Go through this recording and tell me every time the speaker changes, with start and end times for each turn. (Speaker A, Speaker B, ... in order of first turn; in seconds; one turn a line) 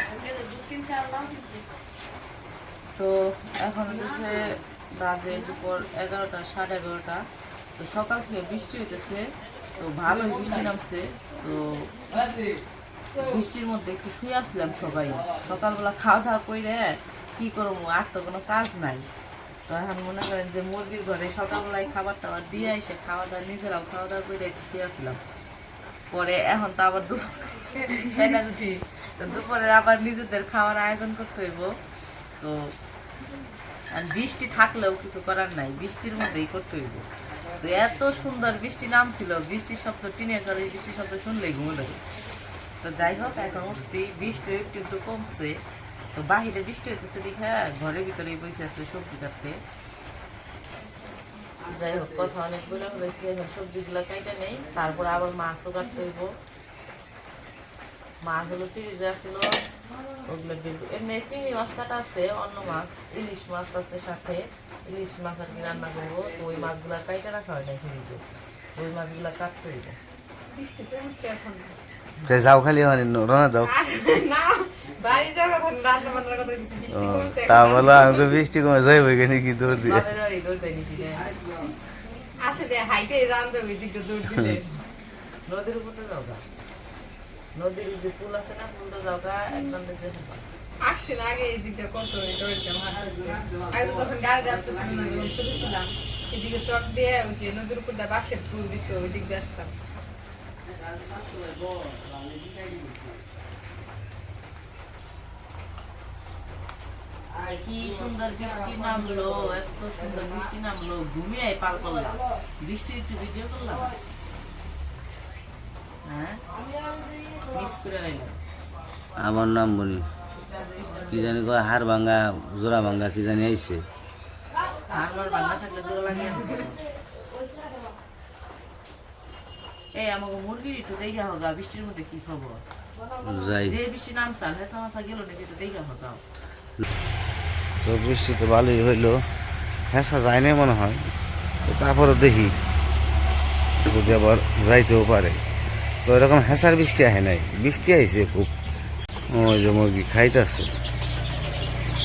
Speaker A: 0.1-1.6
Speaker B: 3.0-7.2
Speaker B: 7.8-9.3
Speaker B: 9.8-12.1
Speaker B: 13.1-19.1
Speaker B: 19.7-25.2
Speaker B: 26.1-31.8
Speaker B: 32.4-32.8
Speaker B: 33.9-42.0
Speaker B: 42.8-45.6
Speaker B: 46.1-49.6
Speaker B: 51.6-56.3
Speaker B: 58.2-59.5
Speaker B: 60.2-68.2
Speaker B: 68.8-70.0
Speaker A: 70.5-71.8
Speaker C: 72.2-73.8
Speaker A: 73.6-78.4
Speaker C: 76.9-80.1
Speaker B: 79.7-81.3
Speaker A: 82.4-84.5
Speaker B: 84.2-84.8
Speaker B: 85.5-86.4
Speaker B: 87.6-90.4
Speaker A: 90.8-99.7
Speaker B: 107.5-113.9
Speaker B: 116.0-116.4
Speaker A: 116.7-117.2
Speaker B: 117.4-118.4
Speaker C: 119.2-120.0
Speaker B: 120.4-121.2
Speaker C: 121.0-123.8
Speaker B: 124.8-126.9
Speaker B: 129.9-132.6
Speaker C: 133.2-133.8
Speaker B: 133.6-136.2
Speaker C: 137.8-139.2
Speaker C: 139.9-141.0
Speaker C: 141.7-142.6
Speaker C: 143.8-145.4
Speaker C: 146.1-148.5
Speaker C: 149.3-150.7